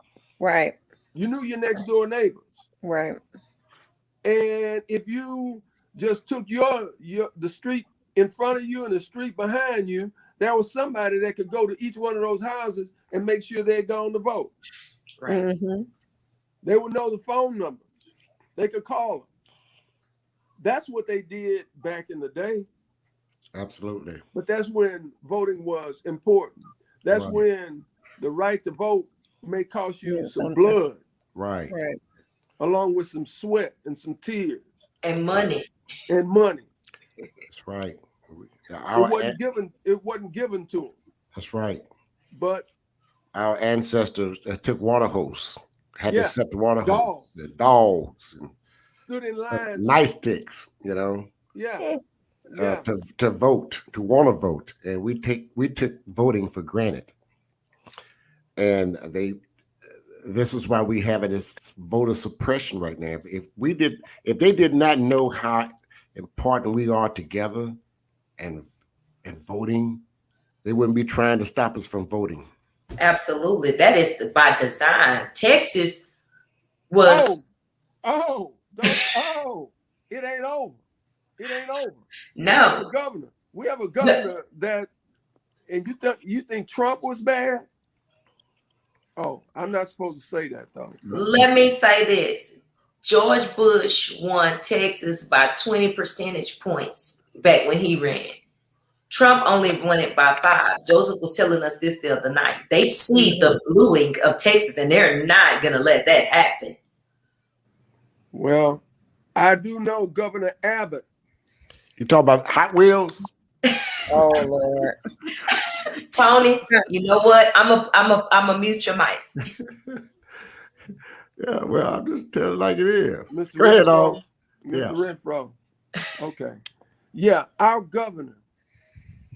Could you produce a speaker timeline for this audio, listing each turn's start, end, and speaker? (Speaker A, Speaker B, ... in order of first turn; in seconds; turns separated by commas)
Speaker A: 0.4-0.8, Speaker B: 1.1-2.6, Speaker A: 2.8-3.2, Speaker B: 4.2-14.5, Speaker A: 15.3-15.8, Speaker B: 16.6-17.9, Speaker B: 18.6-19.3, Speaker B: 20.6-22.7, Speaker C: 23.5-24.2, Speaker B: 24.3-31.0, Speaker C: 27.1-27.4, Speaker A: 30.0-30.8, Speaker C: 31.4-31.7, Speaker A: 31.7-32.0, Speaker B: 32.6-34.8, Speaker D: 35.0-35.7, Speaker B: 36.1-36.7, Speaker C: 37.5-39.4, Speaker B: 38.9-41.0, Speaker C: 41.3-41.8, Speaker B: 42.3-42.7, Speaker C: 43.3-48.5, Speaker B: 46.1-47.2, Speaker B: 49.1-50.0, Speaker C: 49.5-51.3, Speaker B: 51.5-51.9, Speaker B: 52.5-52.9, Speaker C: 52.5-57.1, Speaker C: 58.6-59.4, Speaker C: 60.2-67.8, Speaker C: 68.4-68.6, Speaker C: 69.2-70.0, Speaker C: 70.6-72.5, Speaker D: 73.0-76.0, Speaker D: 76.9-77.4, Speaker B: 77.0-77.5, Speaker B: 78.0-80.8, Speaker B: 81.4-84.9, Speaker D: 82.3-82.9, Speaker B: 85.7-87.7, Speaker B: 89.2-91.0, Speaker C: 91.0-91.4, Speaker D: 91.1-98.3, Speaker D: 99.1-106.8, Speaker A: 103.1-103.6, Speaker B: 108.3-108.8, Speaker B: 109.3-111.0, Speaker C: 112.0-113.3, Speaker A: 114.1-115.0, Speaker C: 114.1-114.4, Speaker D: 116.1-119.2, Speaker C: 121.4-125.0, Speaker B: 123.3-125.6, Speaker B: 126.2-126.6, Speaker B: 127.1-128.4